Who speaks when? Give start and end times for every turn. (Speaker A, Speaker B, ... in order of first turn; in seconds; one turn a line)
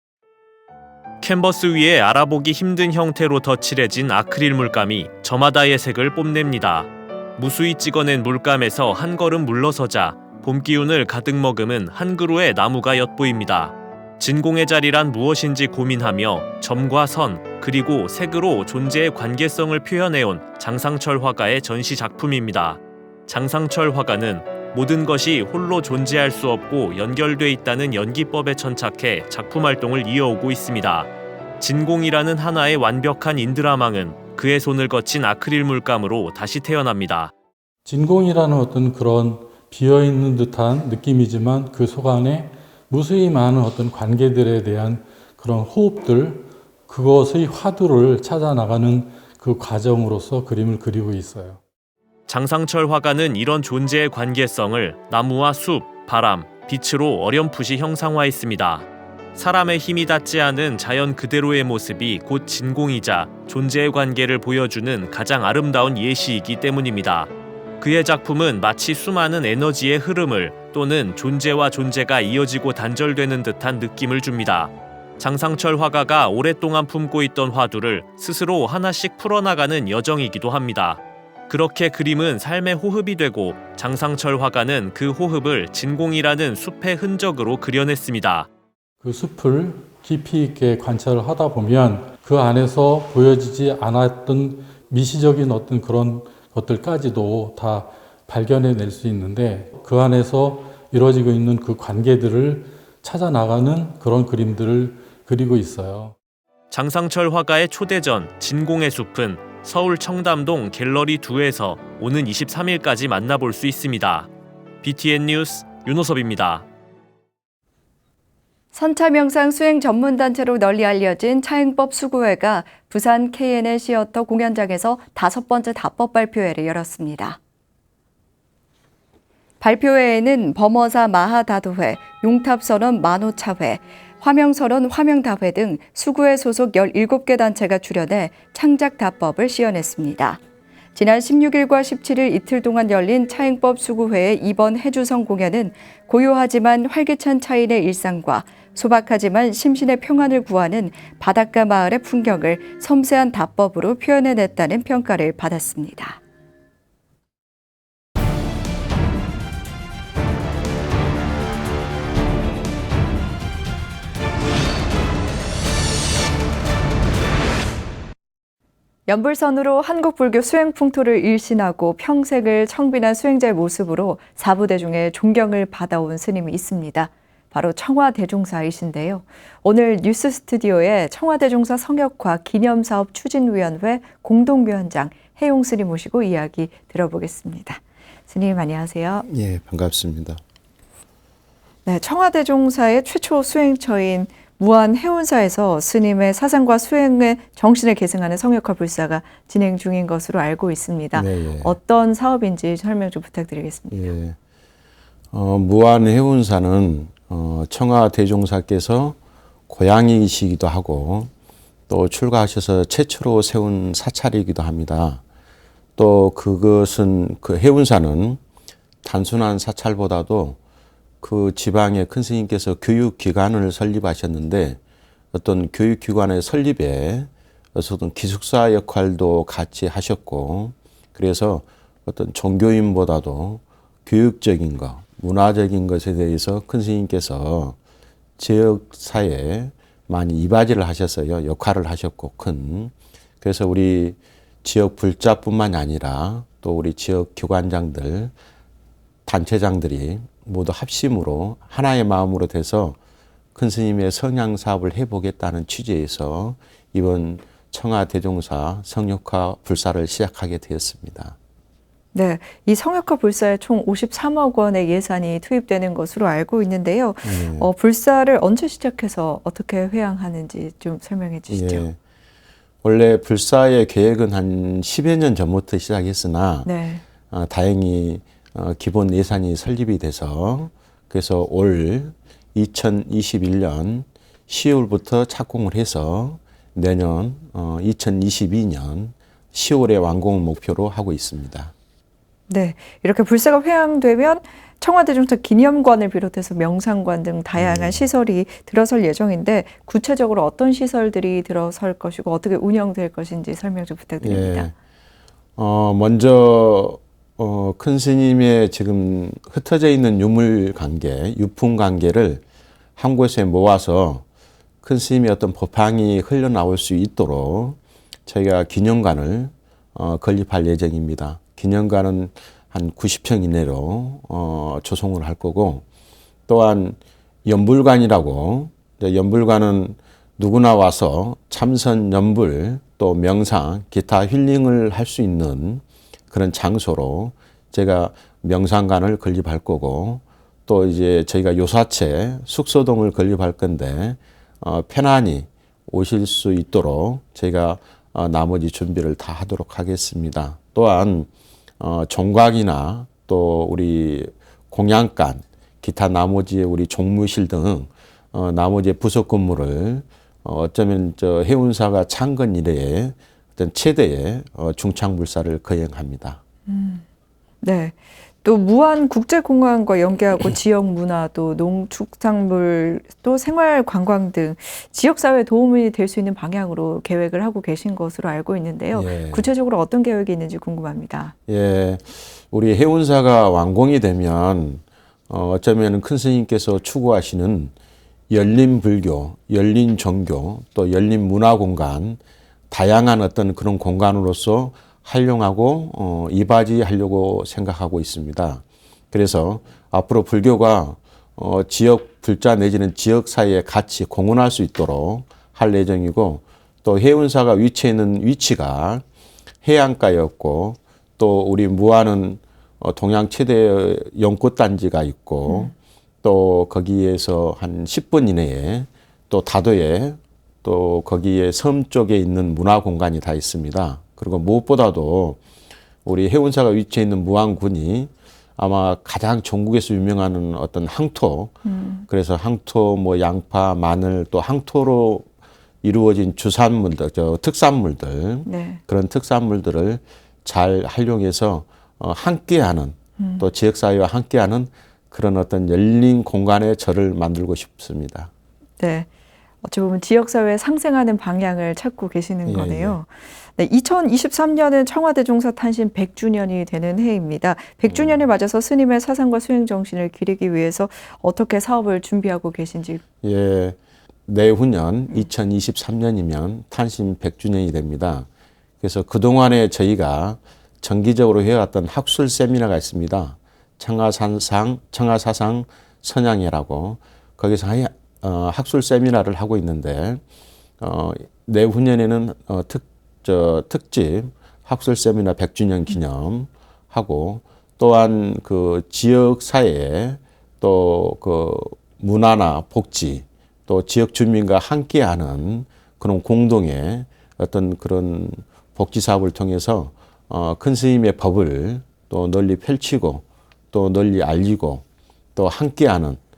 Speaker A: 1.2-37.3
Speaker B: 37.9-51.6
Speaker A: 52.3-88.5
Speaker B: 89.0-106.2
Speaker A: 106.7-114.3
Speaker A: 114.8-116.7
Speaker C: 118.7-127.4
Speaker C: 129.6-140.4
Speaker C: 140.9-156.2
Speaker C: 169.1-189.2
Speaker D: 189.3-190.4
Speaker E: 191.9-204.0
Speaker D: 201.1-201.8
Speaker D: 203.9-204.4
Speaker D: 205.3-209.2
Speaker D: 209.7-211.3
Speaker D: 211.9-215.2
Speaker D: 216.0-218.4
Speaker D: 219.0-220.6
Speaker D: 221.2-224.8
Speaker D: 225.3-237.8
Speaker D: 238.4-248.3
Speaker D: 249.3-253.0
Speaker D: 253.6-261.4
Speaker E: 262.1-271.9
Speaker D: 267.2-267.7
Speaker D: 271.5-272.0
Speaker D: 272.8-276.7
Speaker E: 276.6-277.1
Speaker D: 277.3-291.7
Speaker E: 292.5-304.7
Speaker D: 297.6-298.1
Speaker D: 304.2-304.7
Speaker D: 305.6-312.4
Speaker D: 313.0-314.2
Speaker D: 314.8-325.8
Speaker D: 326.5-351.3
Speaker D: 351.8-366.4
Speaker E: 366.6-367.1
Speaker E: 367.6-381.4
Speaker D: 378.9-379.5
Speaker D: 381.5-387.7
Speaker D: 388.3-409.0
Speaker D: 409.6-425.4
Speaker E: 415.5-415.7
Speaker D: 426.0-431.6
Speaker E: 431.6-432.1
Speaker D: 432.1-435.3
Speaker D: 435.8-448.3
Speaker E: 438.4-438.8
Speaker E: 443.2-443.5
Speaker E: 448.8-449.1
Speaker E: 449.6-463.0
Speaker D: 452.4-453.0
Speaker D: 457.9-458.3
Speaker D: 463.2-468.3
Speaker D: 468.8-480.2
Speaker D: 480.8-504.8
Speaker D: 505.4-506.2